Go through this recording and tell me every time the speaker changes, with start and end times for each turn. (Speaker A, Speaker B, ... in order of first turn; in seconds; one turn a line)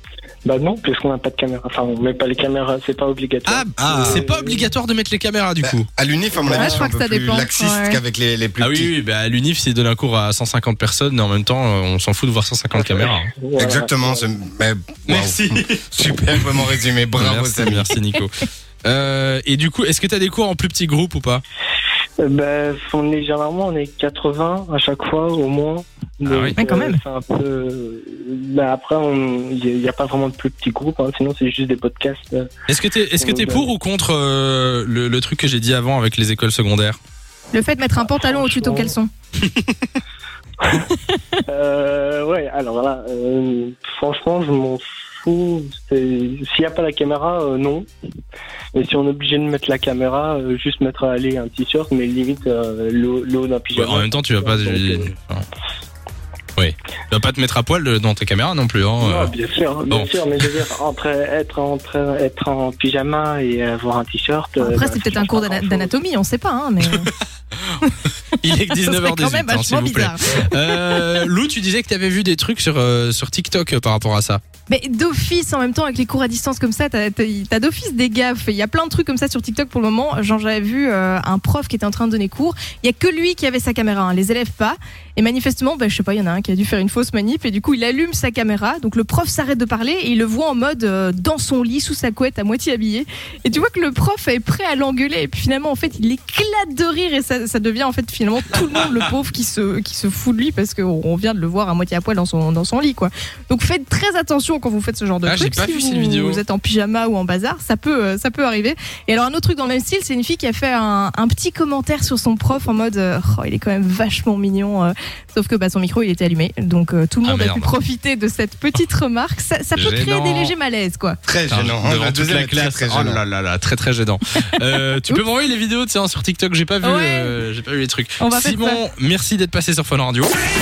Speaker A: 0.5-4.7
Speaker B: 3.5-5.9
Speaker C: 3.8-4.2
Speaker C: 5.6-8.9
Speaker A: 6.3-6.9
Speaker D: 6.5-8.0
Speaker B: 8.6-13.3
Speaker A: 12.7-14.3
Speaker C: 13.6-17.9
Speaker B: 15.1-15.9
Speaker B: 17.2-21.4
Speaker A: 22.2-32.5
Speaker B: 26.3-26.6
Speaker D: 26.6-27.0
Speaker B: 32.7-37.0
Speaker A: 33.2-33.7
Speaker D: 37.5-39.1
Speaker A: 37.9-39.0
Speaker D: 40.9-41.2
Speaker A: 41.5-47.9
Speaker A: 48.7-55.1
Speaker B: 53.8-55.4
Speaker B: 56.6-59.3
Speaker A: 59.0-66.0
Speaker D: 64.6-67.1
Speaker B: 68.4-74.4
Speaker D: 68.7-71.3
Speaker D: 74.7-121.2
Speaker B: 105.2-106.4
Speaker B: 117.2-117.7
Speaker B: 119.8-120.5
Speaker C: 121.3-123.2
Speaker B: 121.5-130.3
Speaker D: 126.8-127.3
Speaker D: 128.2-128.8